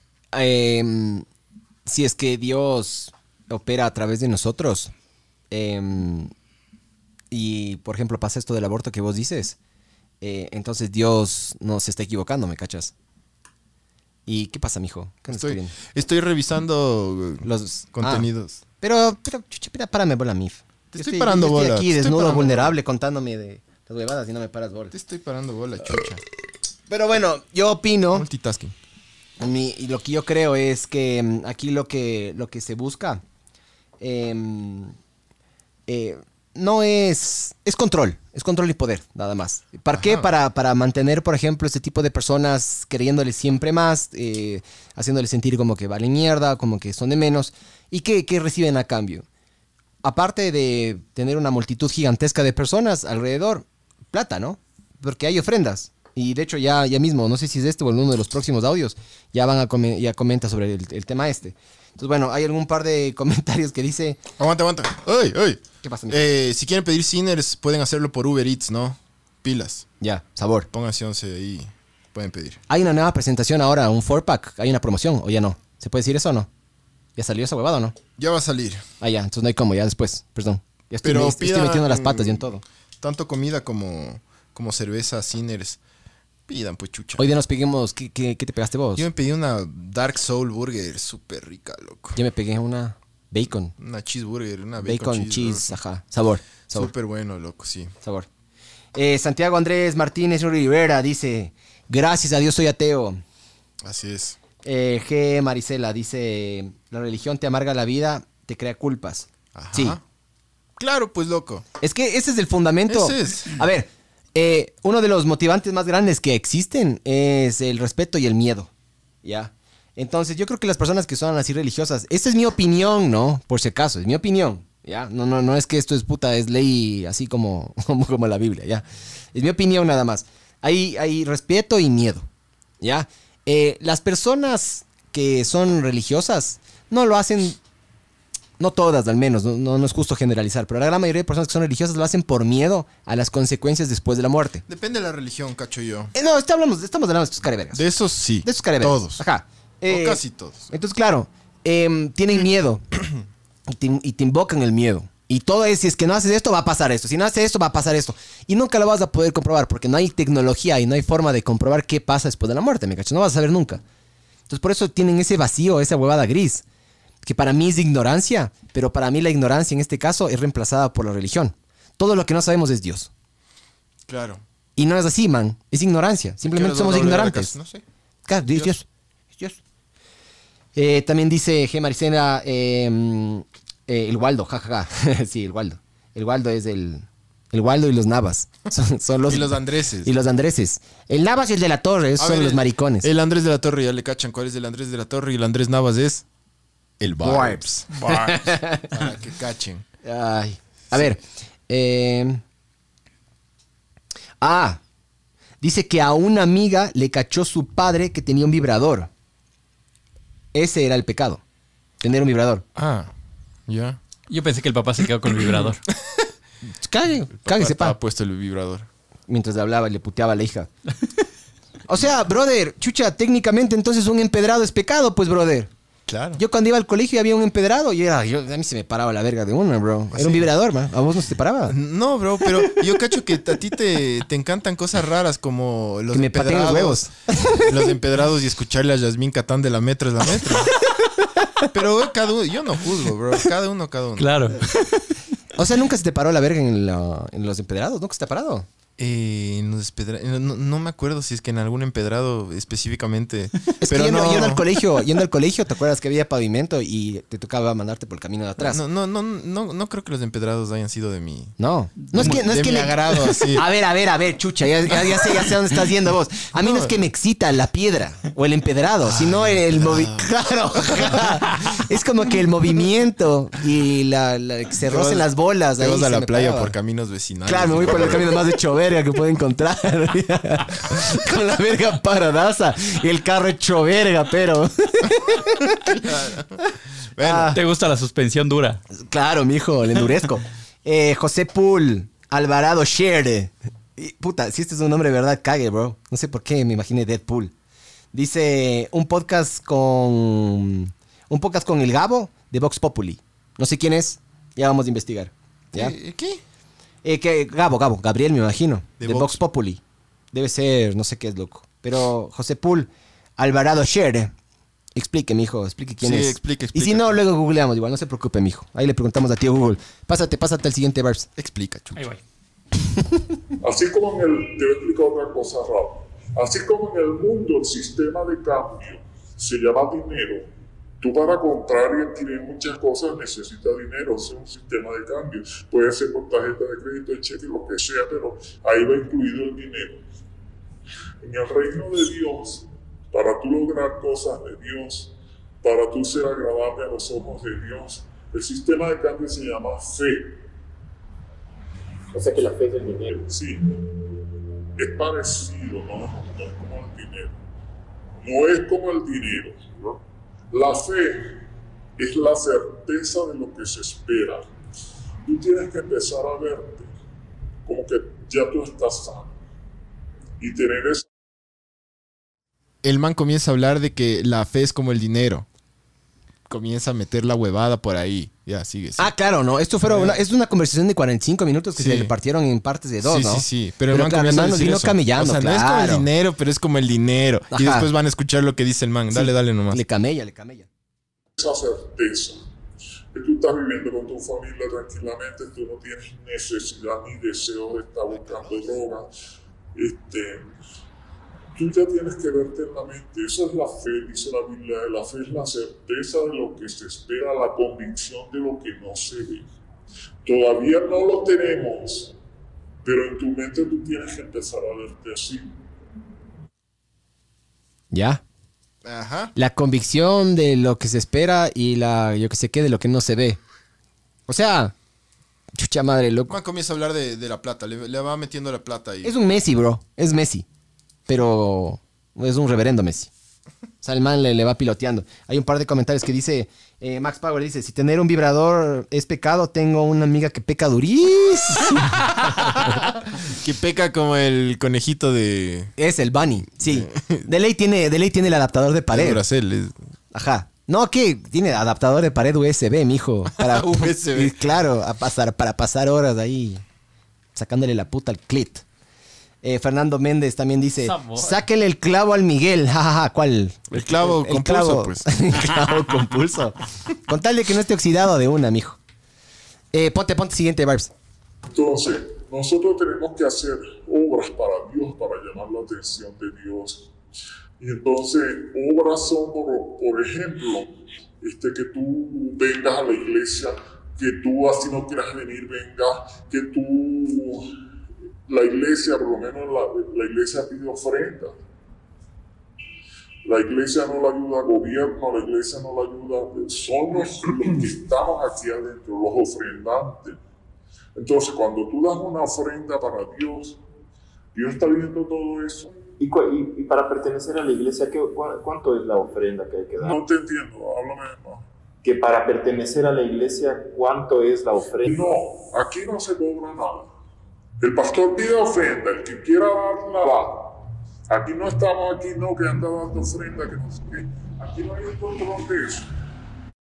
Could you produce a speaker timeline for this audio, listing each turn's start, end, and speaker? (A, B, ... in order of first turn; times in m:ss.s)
0:00.3-0:01.2 A
0:01.8-0:04.9 A
0:05.5-0:06.3 A
0:07.3-0:09.6 A
0:10.2-0:12.9 A
0:14.2-0:15.7 A
0:15.3-0:18.6 B
0:17.4-0:18.3 A
0:18.8-0:24.9 A
0:20.9-0:22.7 B
0:24.9-0:26.2 B
0:26.9-0:28.3 A
0:28.1-0:28.7 B
0:29.4-0:33.2 A
0:34.0-0:34.9 A
0:35.9-0:49.2 A
0:39.9-0:40.3 B
0:50.0-1:04.2 A
1:04.4-1:09.9 B
1:05.8-1:06.3 A
1:10.0-1:10.7 A
1:10.7-1:12.6 B
1:12.7-1:16.5 A
1:17.2-1:18.0 A
1:18.2-1:18.8 B
1:19.0-1:22.6 A
1:21.0-1:22.4 B
1:23.0-1:25.8 B
1:26.5-1:27.2 B
1:27.2-1:29.0 A
1:28.9-1:32.2 B
1:32.2-1:33.7 A
1:33.8-1:35.8 B
1:34.8-1:36.9 A
1:36.7-1:37.9 B
1:38.0-1:38.3 A
1:38.9-1:43.2 A
1:43.8-1:44.4 B
1:44.6-1:50.0 A
1:49.5-1:50.0 B
1:50.8-1:51.6 B
1:51.8-1:58.7 A
1:52.9-1:53.6 B
1:59.2-2:12.3 A
2:12.8-2:17.6 A
2:18.6-2:24.6 A
2:24.7-2:26.1 B
2:26.1-2:27.8 A
2:27.7-2:29.2 B
2:28.4-2:32.8 A
2:29.9-2:30.7 B
2:33.7-2:43.8 A
2:44.5-2:46.6 A
2:47.2-2:53.1 A
2:54.1-2:54.4 B
2:54.8-2:57.5 A
2:56.4-2:57.8 B
2:58.2-2:59.6 A
2:58.5-2:58.7 B
3:00.7-3:13.1 A
3:09.2-3:10.1 B
3:12.2-3:16.2 B
3:17.0-3:18.1 B
3:17.2-3:18.9 A
3:18.8-3:19.8 B
3:20.0-3:22.4 A
3:24.4-3:24.8 A
3:25.6-3:29.1 A
3:30.5-3:31.4 A
3:32.0-3:32.6 A
3:32.7-3:33.1 B
3:33.7-3:34.0 B
3:34.3-3:35.8 C
3:35.3-3:36.2 B
3:36.8-3:38.0 A
3:37.4-3:38.9 B
3:39.3-3:40.7 A
3:41.9-3:45.7 A
3:46.1-3:46.4 B
3:46.4-3:51.8 A
3:50.1-3:50.5 B
3:51.7-4:00.7 B
3:56.1-3:57.9 A
4:01.7-4:04.5 B
4:04.2-4:05.1 C
4:05.6-4:08.7 A
4:09.0-4:14.6 B
4:13.8-4:18.8 A
4:18.6-4:21.5 B
4:21.6-4:36.7 A
4:22.1-4:23.6 B
4:26.6-4:26.9 B
4:29.0-4:31.6 B
4:34.8-4:35.3 B
4:35.8-4:38.4 B
4:37.4-4:45.9 A
4:45.3-4:46.6 B
4:47.1-4:47.6 B
4:47.2-4:47.6 A
4:47.5-4:48.8 C
4:48.9-4:57.5 A
4:58.1-5:05.9 A
5:05.7-5:06.4 B
5:07.0-5:09.8 A
5:09.0-5:09.4 B
5:10.3-5:14.3 A
5:14.9-5:21.3 A
5:16.0-5:17.2 B
5:21.4-5:22.1 B
5:23.6-5:30.5 D
5:31.0-5:40.0 D
5:41.2-5:50.4 D
5:52.1-5:53.3 E
5:53.2-5:53.7 D
5:54.8-5:57.4 D
5:58.2-5:59.6 D
6:00.5-6:01.4 D
6:02.0-6:04.5 D
6:05.2-6:06.9 D
6:07.6-6:09.3 D
6:10.4-6:11.0 D
6:12.8-6:15.4 B
6:16.5-6:19.1 B
6:19.0-6:26.1 A
6:19.8-6:20.2 B
6:21.8-6:22.1 B
6:23.0-6:29.8 B
6:27.5-6:27.9 A
6:29.1-6:30.7 A
6:31.4-6:32.4 D
6:33.1-6:39.1 D
6:39.7-6:40.5 D
6:41.5-6:49.5 D
6:50.2-6:52.1 D
6:52.8-6:55.5 D
6:57.9-6:58.2 A
6:58.8-6:59.3 B
6:59.3-7:03.4 A
7:04.3-7:04.7 A
7:05.5-7:06.4 A
7:06.3-7:09.1 B
7:09.0-7:10.4 A
7:11.1-7:13.1 A
7:13.8-7:21.9 A
7:22.2-7:25.7 B
7:25.8-7:29.2 A
7:26.6-7:27.3 B
7:28.9-7:29.7 B
7:30.1-7:36.6 A
7:33.4-7:34.4 B
7:37.3-7:38.6 A
7:39.4-7:48.8 A
7:40.8-7:41.4 C
7:43.7-7:45.1 B
7:49.7-7:50.9 A
7:51.5-7:56.9 D
7:57.6-8:07.5 D
8:08.3-8:11.3 D
8:13.2-8:20.2 D
8:21.0-8:23.6 D
8:24.3-8:25.8 D
8:26.0-8:29.9 E
8:29.8-8:31.4 D
8:31.8-8:35.1 E
8:34.8-8:36.9 D
8:37.6-8:45.9 D